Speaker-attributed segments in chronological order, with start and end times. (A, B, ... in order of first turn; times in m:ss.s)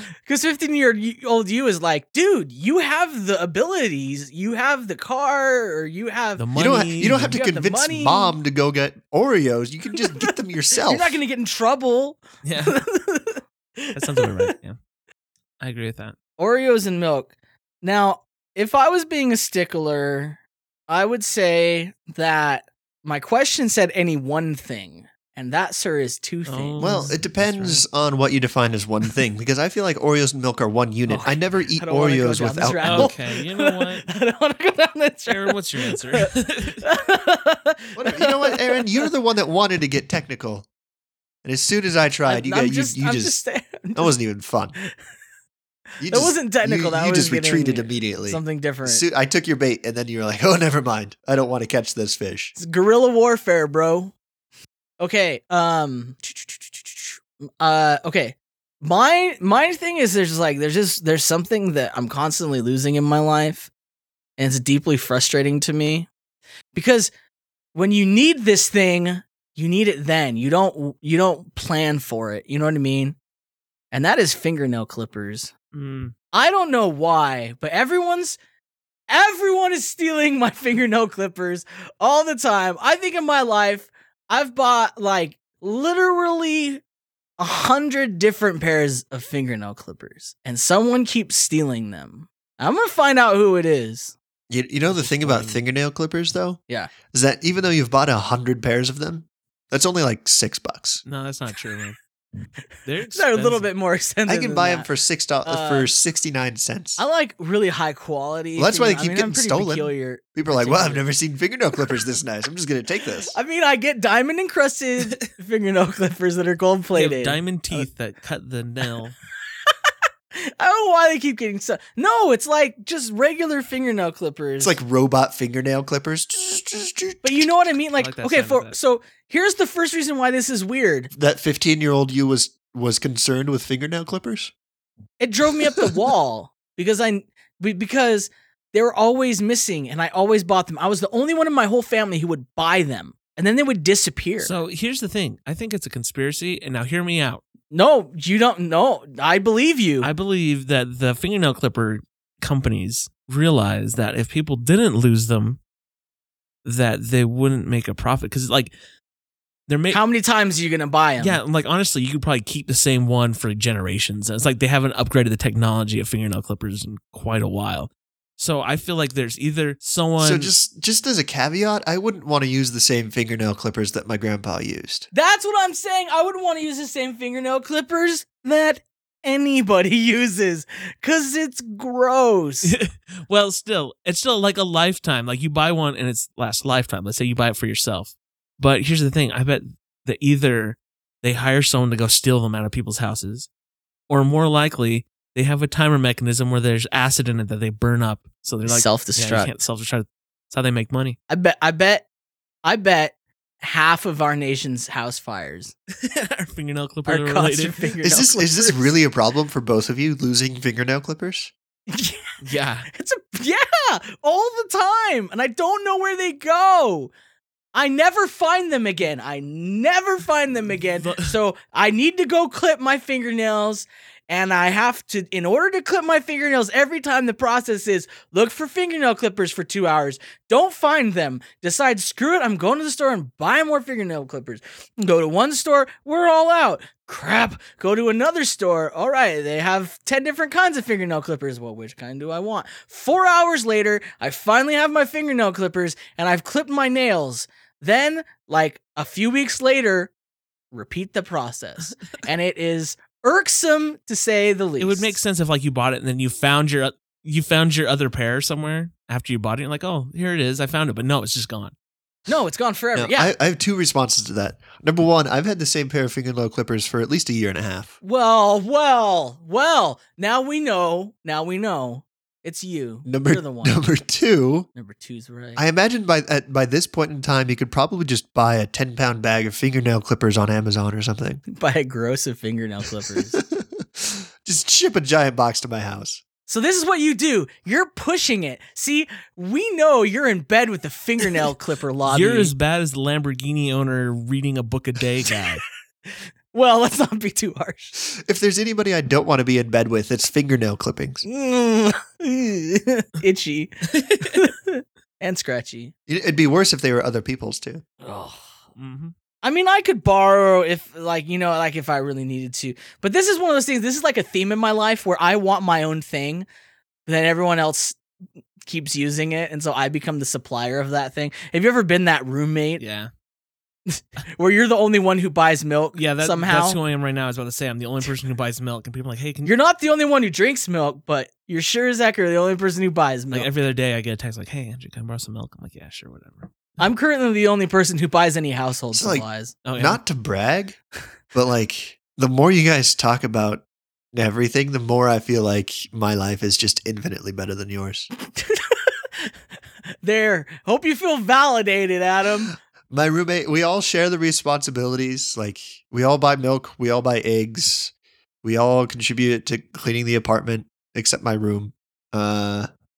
0:00.2-0:06.5 A
0:06.4-0:07.4 B
0:06.6-0:11.2 C
0:07.2-0:08.4 A
0:09.9-0:14.6 A
0:12.4-0:12.8 B
0:13.9-0:14.8 B
0:15.6-0:16.2 B
0:16.4-0:27.1 A
0:26.5-0:27.8 B
0:26.8-0:33.2 C
0:31.1-0:39.1 A
0:32.8-0:34.1 B
0:35.3-0:36.8 B
0:38.0-0:40.7 C
0:41.4-0:43.4 C
0:42.3-0:44.1 A
0:44.0-0:44.8 C
0:46.0-0:52.6 C
0:46.0-0:49.0 A
0:52.6-0:54.1 A
0:55.0-1:03.7 A
1:04.4-1:06.1 A
1:06.7-1:07.1 A
1:07.7-1:13.2 A
1:13.9-1:15.5 A
1:15.7-1:16.1 B
1:16.3-1:18.4 A
1:19.1-1:26.8 A
1:27.4-1:34.1 A
1:34.5-1:36.6 C
1:35.0-1:35.4 A
1:35.2-1:35.5 B
1:37.1-1:41.0 C
1:41.0-1:42.0 B
1:42.9-1:43.7 B
1:43.1-1:44.9 A
1:44.3-1:47.0 C
1:45.4-1:45.9 A
1:47.0-1:51.0 A
1:48.6-1:53.4 C
1:53.3-1:57.9 A
1:55.0-1:55.3 B
1:57.0-1:59.2 B
1:59.5-2:04.8 A
2:04.6-2:07.5 C
2:07.2-2:11.1 A
2:08.0-2:08.8 B
2:11.1-2:14.5 C
2:15.2-2:24.5 A
2:24.4-2:27.4 B
2:27.7-2:30.1 A
2:30.0-2:35.6 B
2:36.6-2:38.7 B
2:39.7-2:40.0 B
2:39.9-2:41.4 A
2:41.2-2:50.5 B
2:50.2-2:55.1 C
2:55.1-3:02.7 A
3:02.6-3:13.5 B
3:14.1-3:21.2 B
3:18.7-3:19.5 A
3:21.3-3:22.1 A
3:22.6-3:25.7 A
3:25.9-3:27.9 B
3:27.1-3:29.0 A
3:28.0-3:31.5 C
3:31.9-3:32.4 A
3:32.4-3:32.9 B
3:32.9-3:37.1 A
3:37.7-4:10.1 A
3:41.0-3:41.3 B
4:10.7-4:15.2 A
4:14.8-4:21.7 B
4:22.3-4:23.3 A
4:23.0-4:28.0 C
4:28.0-4:33.8 A
4:33.1-4:34.7 C
4:34.8-4:35.6 A
4:35.6-4:41.4 C
4:41.5-4:43.4 A
4:43.3-4:46.2 C
4:46.5-4:52.5 A
4:52.1-4:55.6 B
4:55.3-4:58.0 A
4:58.0-5:01.2 C
5:01.3-5:05.9 A
5:03.9-5:04.5 B
5:06.1-5:07.8 C
5:08.0-5:08.5 A
5:08.8-5:09.1 B
5:09.4-5:16.5 A
5:17.1-5:18.0 A
5:18.6-5:22.8 A
5:22.8-5:23.1 B
5:23.9-5:26.8 A
5:26.0-5:29.5 B
5:29.4-5:33.5 A
5:33.3-5:36.5 B
5:36.8-5:39.6 A
5:38.9-5:39.2 C
5:39.6-5:40.0 B
5:39.8-5:40.8 C
5:41.3-5:48.1 C
5:48.2-5:49.4 A
5:50.0-5:52.5 A
5:52.9-6:02.7 C